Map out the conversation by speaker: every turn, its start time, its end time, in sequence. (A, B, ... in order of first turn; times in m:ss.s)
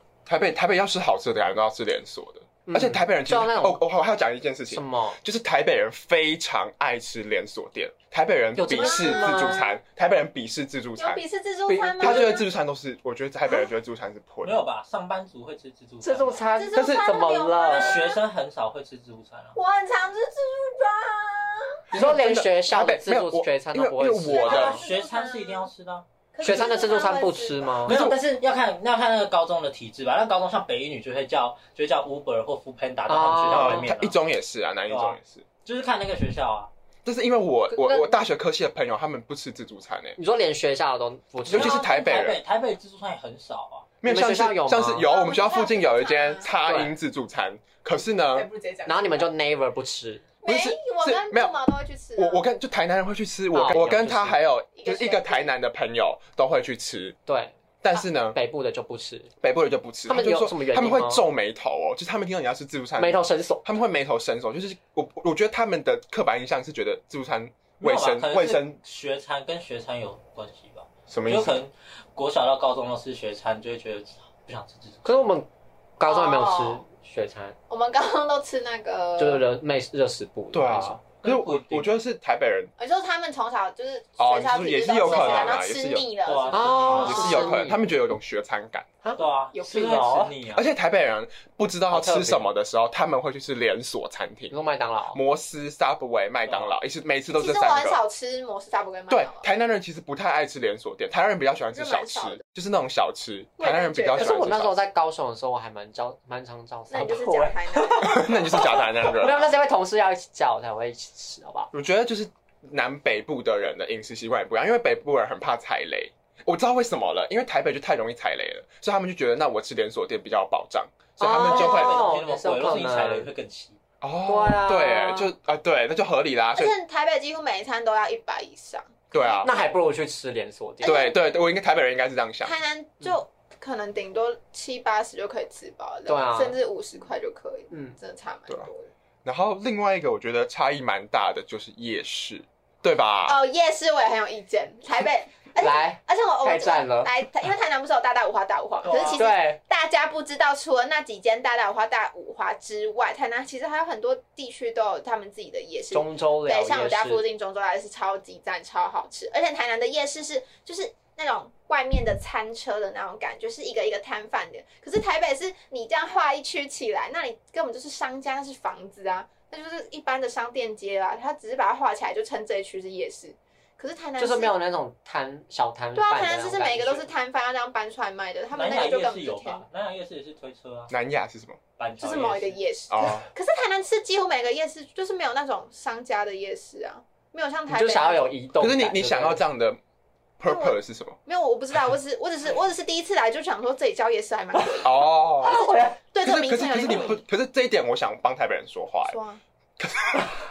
0:00.3-0:11.2 A
0:02.7-0:03.8 B
0:04.7-0:05.2 B
0:08.6-0:09.7 B
0:08.7-0:09.7 C
0:11.0-0:12.5 C
0:11.7-0:12.3 B
0:12.0-0:14.6 A
0:14.4-0:16.5 D
0:16.0-0:18.0 B
0:16.6-0:18.2 C
0:16.7-0:17.1 A
0:17.7-0:19.6 D
0:19.6-0:21.8 C
0:21.9-0:24.8 B
0:21.9-0:24.8 A
0:24.3-0:25.7 C
0:24.4-0:26.0 D
0:26.3-0:27.8 C
0:26.4-0:28.0 B
0:27.8-0:34.2 D
0:27.9-0:28.2 A
0:33.1-0:33.9 B
0:33.5-0:35.4 A
0:34.9-0:36.7 D
0:37.0-0:40.2 A
0:37.7-0:38.2 B
0:40.2-0:41.8 B
0:41.5-0:42.4 A
0:41.5-0:43.9 D
0:44.0-0:48.5 A
0:44.0-0:45.1 B
0:45.0-0:46.5 C
0:46.6-0:46.9 B
0:47.9-0:49.3 C
0:48.9-0:50.3 B
0:50.4-0:52.4 C
0:50.5-0:51.6 A
0:52.2-0:57.2 A
0:53.5-0:54.4 B
0:54.7-0:55.5 C
0:57.3-0:57.6 B
0:57.8-0:58.4 A
0:58.2-0:59.3 B
0:59.4-1:08.8 A
1:00.1-1:01.2 B
1:03.0-1:03.7 B
1:07.8-1:15.3 D
1:11.1-1:11.6 A
1:15.0-1:17.6 B
1:16.0-1:16.8 C
1:17.7-1:19.4 C
1:19.2-1:21.0 B
1:20.5-1:22.7 A
1:21.2-1:22.0 D
1:22.8-1:27.5 C
1:24.2-1:26.1 A
1:25.0-1:25.6 D
1:26.2-1:27.5 D
1:26.5-1:27.8 B
1:26.9-1:28.9 A
1:29.0-1:30.3 B
1:29.2-1:30.7 D
1:29.5-1:30.3 C
1:30.5-1:34.6 A
1:31.9-1:32.5 B
1:34.5-1:35.2 B
1:35.1-1:38.0 A
1:36.5-1:36.8 D
1:37.3-1:39.5 C
1:39.1-1:44.8 A
1:41.7-1:42.4 C
1:43.6-1:44.4 C
1:44.1-1:51.7 B
1:46.9-1:48.6 C
1:48.0-1:49.5 A
1:51.7-2:02.0 A
2:01.2-2:03.3 B
2:01.3-2:03.8 D
2:04.0-2:06.7 A
2:04.3-2:05.3 B
2:06.6-2:09.6 C
2:09.1-2:09.5 A
2:09.4-2:11.1 B
2:10.8-2:11.2 C
2:10.8-2:12.6 A
2:12.4-2:18.9 C
2:16.1-2:16.6 B
2:17.7-2:18.0 B
2:19.2-2:23.4 A
2:23.3-2:54.6 C
2:25.6-2:27.1 B
2:28.8-2:29.3 D
2:29.1-2:29.6 B
2:35.9-2:37.2 B
2:54.2-2:57.1 B
2:56.0-2:59.7 C
2:58.5-3:00.9 D
3:00.9-3:01.6 A
3:01.8-3:02.6 D
3:02.0-3:08.3 C
3:02.9-3:03.3 A
3:07.7-3:09.4 B
3:08.6-3:09.8 A
3:10.4-3:11.2 A
3:10.4-3:17.2 C
3:14.8-3:15.7 A
3:15.4-3:16.0 B
3:16.2-3:19.2 A
3:19.0-3:19.4 C
3:19.8-3:20.4 A